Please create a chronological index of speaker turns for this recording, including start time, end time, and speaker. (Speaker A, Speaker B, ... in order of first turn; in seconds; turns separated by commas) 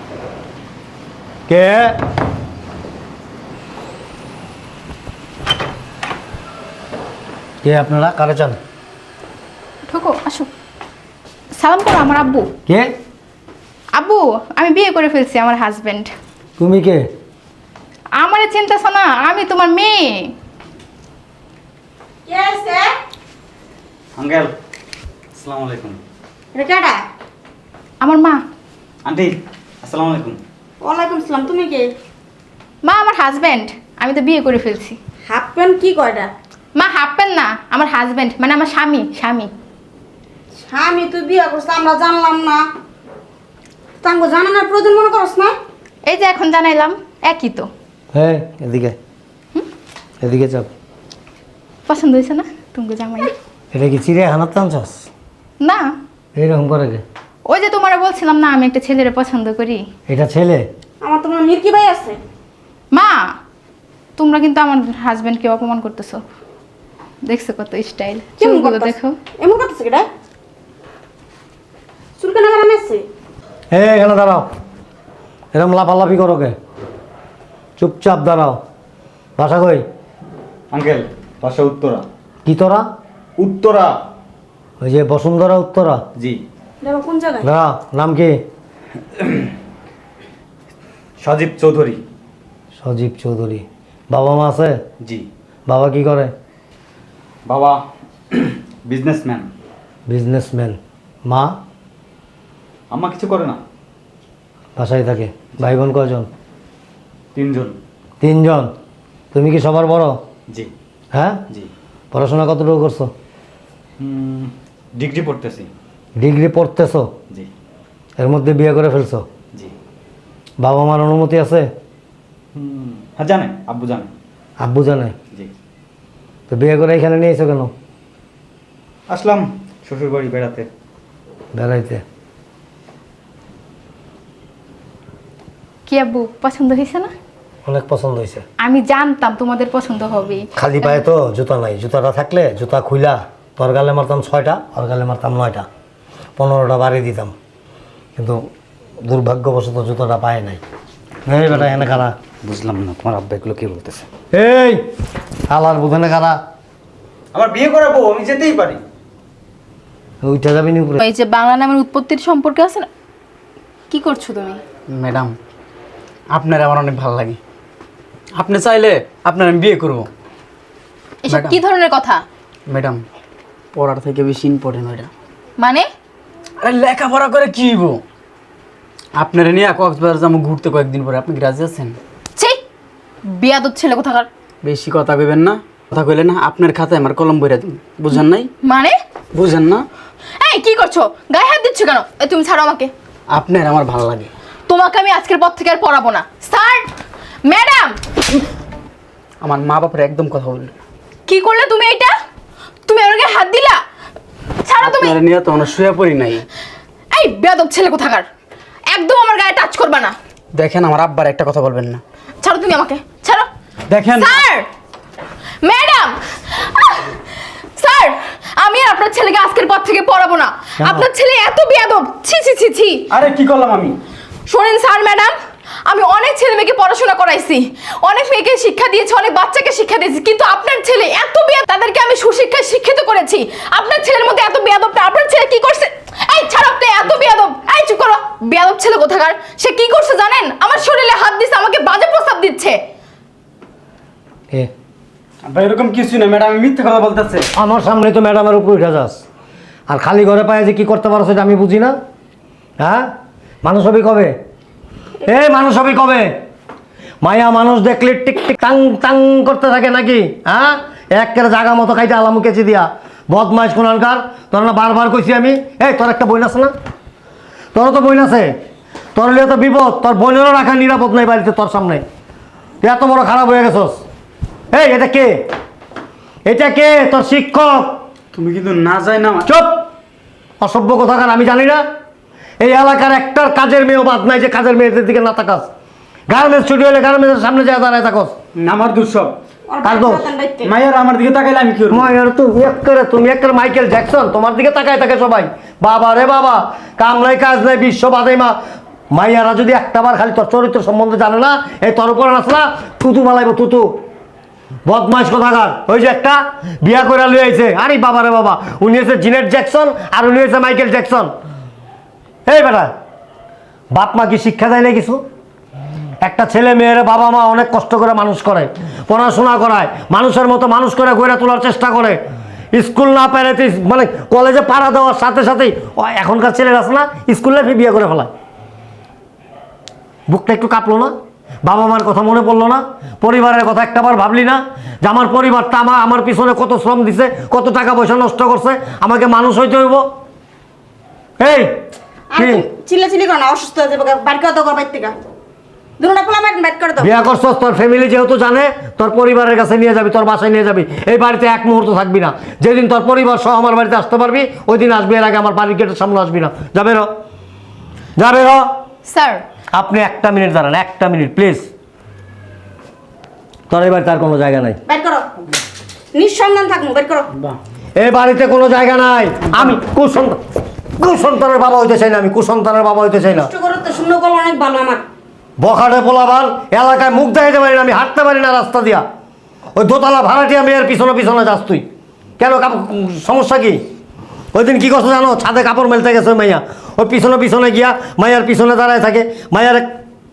Speaker A: 1.5-1.9, Speaker A: 7.6-8.6, Speaker B: 9.9-10.5, Speaker B: 11.6-12.5, Speaker B: 13.9-16.1, Speaker A: 16.6-17.0, Speaker B: 18.2-20.3, Speaker C: 22.3-22.9, Speaker D: 24.2-24.5, Speaker D: 25.4-26.0, Speaker C: 26.5-27.0, Speaker B: 28.0-28.4, Speaker D: 29.1-30.4, Speaker C: 30.8-31.9, Speaker B: 32.8-35.0, Speaker C: 35.3-36.3, Speaker B: 36.8-39.5, Speaker C: 40.7-42.6, Speaker C: 44.0-45.6, Speaker B: 46.1-47.7, Speaker A: 48.1-49.0, Speaker A: 50.2-50.7, Speaker B: 51.9-53.3, Speaker A: 53.7-55.1, Speaker B: 55.6-55.9, Speaker A: 56.4-57.0, Speaker B: 57.5-59.8, Speaker A: 60.1-60.6, Speaker C: 61.0-62.2, Speaker B: 62.9-63.3, Speaker B: 64.2-66.2, Speaker B: 67.3-69.2, Speaker C: 68.4-70.1, Speaker C: 72.2-73.0, Speaker A: 73.7-74.5, Speaker A: 75.5-76.5, Speaker A: 77.8-78.6, Speaker A: 79.4-79.8, Speaker D: 80.7-82.1, Speaker A: 82.5-82.8, Speaker D: 83.4-84.0, Speaker A: 84.8-86.0, Speaker D: 86.2-86.4, Speaker C: 86.8-87.5, Speaker A: 87.4-88.4, Speaker D: 91.2-92.0, Speaker A: 92.8-94.8, Speaker D: 95.0-95.3, Speaker A: 95.7-96.3, Speaker D: 97.5-99.5, Speaker A: 100.1-101.6, Speaker D: 102.9-103.6, Speaker A: 104.8-106.3, Speaker D: 107.3-107.8, Speaker A: 108.2-108.7, Speaker A: 109.3-110.2, Speaker A: 111.1-111.4, Speaker A: 112.1-113.1, Speaker D: 114.0-115.7, Speaker A: 116.2-117.1, Speaker A: 118.2-119.3, Speaker A: 120.6-121.7, Speaker D: 122.5-124.1, Speaker A: 124.6-125.2, Speaker A: 126.5-127.7, Speaker D: 129.1-130.7, Speaker A: 131.5-132.0, Speaker B: 135.9-137.1, Speaker A: 137.7-138.4, Speaker B: 138.6-141.0, Speaker A: 140.6-145.7, Speaker A: 146.4-147.3, Speaker A: 148.2-148.5, Speaker A: 149.1-150.6, Speaker A: 151.3-152.2, Speaker D: 151.5-154.1, Speaker A: 154.3-154.8, Speaker A: 155.5-156.4, Speaker E: 157.3-158.8, Speaker A: 160.2-161.0, Speaker B: 161.0-162.9, Speaker B: 163.9-164.6, Speaker E: 164.9-165.3, Speaker E: 166.3-167.4, Speaker E: 168.4-170.1, Speaker B: 171.2-172.2, Speaker E: 171.3-171.6, Speaker E: 172.7-173.0, Speaker E: 173.8-175.1, Speaker B: 175.6-175.9, Speaker E: 176.6-178.0, Speaker E: 179.2-182.0, Speaker B: 183.3-184.3, Speaker E: 184.6-188.5, Speaker B: 188.2-189.0, Speaker E: 189.3-189.8, Speaker B: 190.4-192.9, Speaker E: 193.3-194.3, Speaker B: 194.7-196.9, Speaker B: 197.5-198.0, Speaker E: 199.4-200.8, Speaker B: 201.3-202.1, Speaker B: 202.9-203.8, Speaker B: 204.6-205.2, Speaker E: 204.8-206.5, Speaker B: 207.1-208.2, Speaker B: 208.9-210.2, Speaker E: 210.6-212.0, Speaker B: 212.4-213.5, Speaker E: 213.9-214.4, Speaker B: 214.1-214.7, Speaker B: 215.6-217.2, Speaker B: 217.8-223.1, Speaker A: 220.8-221.1, Speaker E: 223.1-224.0, Speaker B: 224.5-225.3, Speaker B: 225.9-242.8, Speaker E: 245.4-247.5, Speaker A: 247.6-249.2, Speaker A: 249.9-251.9, Speaker A: 252.8-253.1, Speaker A: 253.6-254.3, Speaker A: 255.2-256.4, Speaker A: 257.2-266.7, Speaker A: 267.7-268.6, Speaker A: 269.1-272.0, Speaker A: 272.8-274.0, Speaker A: 274.7-275.5, Speaker A: 276.4-278.0, Speaker E: 278.3-279.4, Speaker A: 279.5-279.9, Speaker A: 280.6-281.8, Speaker A: 282.6-285.7, Speaker A: 286.3-288.3, Speaker E: 288.6-289.4, Speaker C: 289.7-290.7, Speaker A: 289.8-290.3, Speaker E: 290.6-292.1, Speaker A: 291.9-298.6, Speaker A: 299.1-304.0, Speaker A: 304.9-311.3, Speaker A: 312.5-312.9, Speaker A: 313.9-315.2, Speaker A: 316.2-322.2, Speaker A: 322.7-328.3, Speaker A: 330.3-331.1, Speaker A: 331.6-340.1, Speaker A: 341.4-341.8, Speaker C: 342.3-345.1, Speaker A: 342.4-342.6, Speaker C: 346.0-347.1, Speaker A: 347.0-357.1, Speaker A: 358.2-358.7, Speaker B: 359.1-359.4, Speaker A: 359.7-361.6, Speaker A: 363.7-364.8, Speaker C: 364.9-365.3, Speaker C: 366.1-367.3, Speaker A: 368.0-370.4, Speaker A: 371.0-373.5, Speaker C: 373.3-375.0, Speaker A: 375.6-379.0, Speaker A: 379.8-381.9, Speaker A: 382.4-383.8, Speaker A: 384.5-389.9